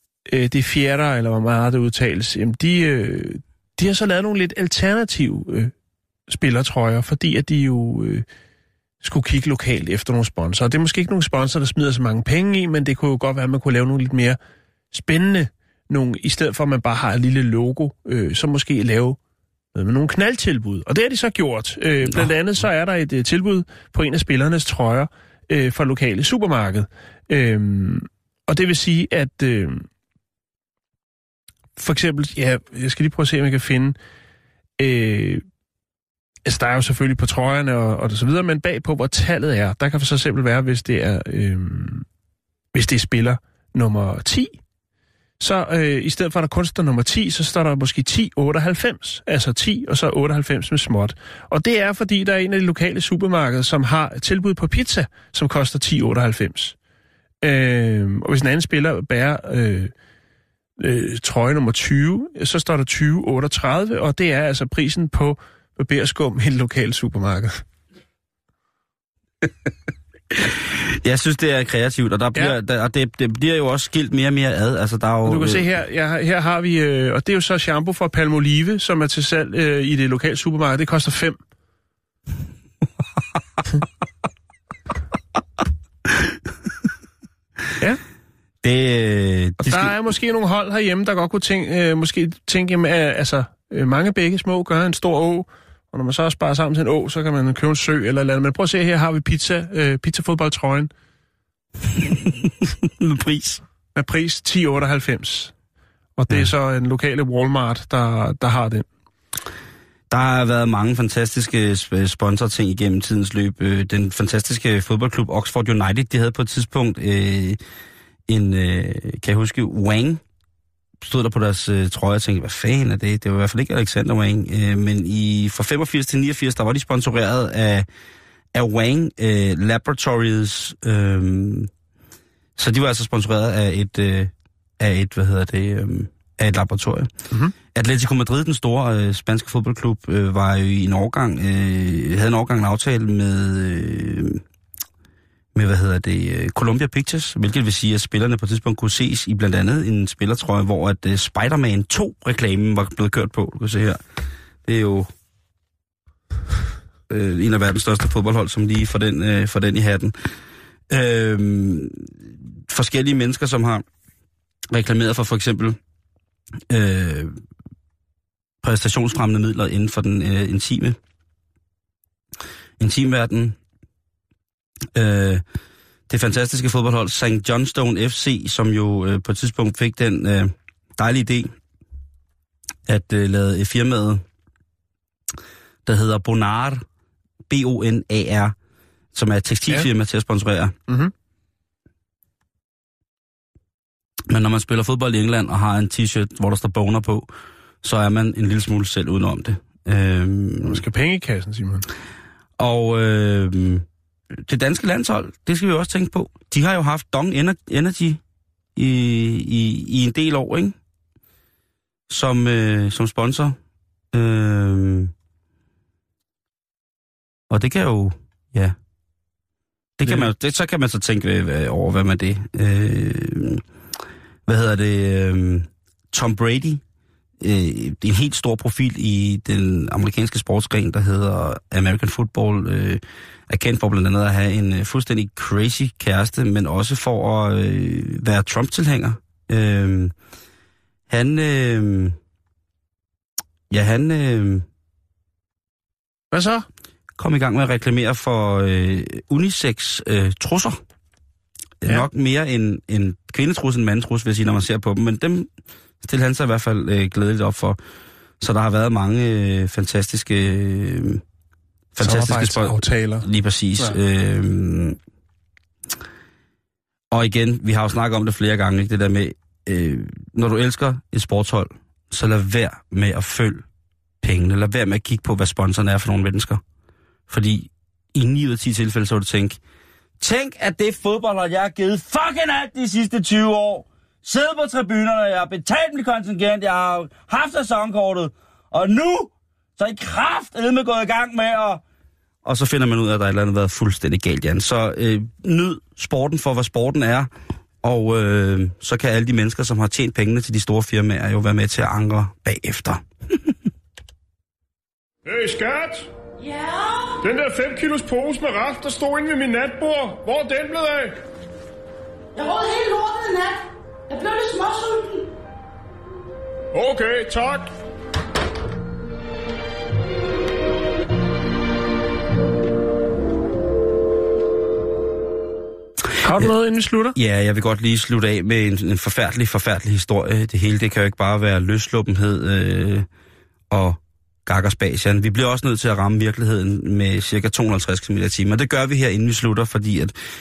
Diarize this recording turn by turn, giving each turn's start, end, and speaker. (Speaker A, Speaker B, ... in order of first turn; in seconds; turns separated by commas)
Speaker A: 0.3-5.7, Speaker A: 6.3-8.2, Speaker A: 9.0-14.4, Speaker A: 14.9-19.2, Speaker A: 19.7-29.9, Speaker A: 31.8-34.0, Speaker A: 34.8-35.4, Speaker A: 36.5-42.0, Speaker A: 42.7-44.5, Speaker A: 45.4-56.8, Speaker A: 57.4-59.9, Speaker A: 60.8-67.6, Speaker B: 70.3-75.7, Speaker A: 75.2-81.4, Speaker B: 88.6-89.9, Speaker A: 89.6-100.9, Speaker B: 101.9-103.6, Speaker A: 103.9-105.5, Speaker A: 106.2-108.9, Speaker B: 110.1-117.6, Speaker B: 118.3-120.2, Speaker B: 121.0-127.8, Speaker B: 128.5-131.7, Speaker B: 132.6-137.1, Speaker B: 137.7-144.4, Speaker B: 145.5-154.0, Speaker B: 154.6-155.1, Speaker B: 157.1-160.3, Speaker B: 160.9-163.8, Speaker B: 164.7-165.8, Speaker B: 166.7-167.4, Speaker B: 168.6-171.0, Speaker B: 172.8-173.6, Speaker B: 174.9-175.4, Speaker B: 176.1-181.5, Speaker B: 182.8-184.2, Speaker B: 185.8-186.8, Speaker B: 187.5-188.5, Speaker B: 189.1-190.7, Speaker A: 190.9-191.1, Speaker B: 194.3-197.3, Speaker B: 197.8-200.8, Speaker A: 200.6-201.9, Speaker B: 202.6-208.2, Speaker B: 208.7-210.8, Speaker B: 212.1-213.6, Speaker B: 214.1-215.1, Speaker B: 217.5-218.7, Speaker B: 220.0-223.6, Speaker B: 224.4-226.8, Speaker B: 227.4-240.1, Speaker B: 241.1-242.2, Speaker B: 243.7-244.6, Speaker A: 246.3-246.7, Speaker B: 247.2-250.8, Speaker B: 251.8-255.5, Speaker B: 256.0-257.8, Speaker B: 258.4-261.2, Speaker B: 261.9-265.0, Speaker A: 262.0-263.3, Speaker B: 267.1-273.6, Speaker B: 274.2-276.6, Speaker B: 277.3-279.6, Speaker B: 280.2-291.8, Speaker B: 292.4-297.3, Speaker B: 297.8-303.5, Speaker A: 305.2-306.1, Speaker C: 306.4-307.2, Speaker A: 307.2-311.2, Speaker C: 312.3-315.3, Speaker A: 316.7-317.7, Speaker A: 326.2-327.1, Speaker B: 327.1-333.1, Speaker B: 333.7-340.1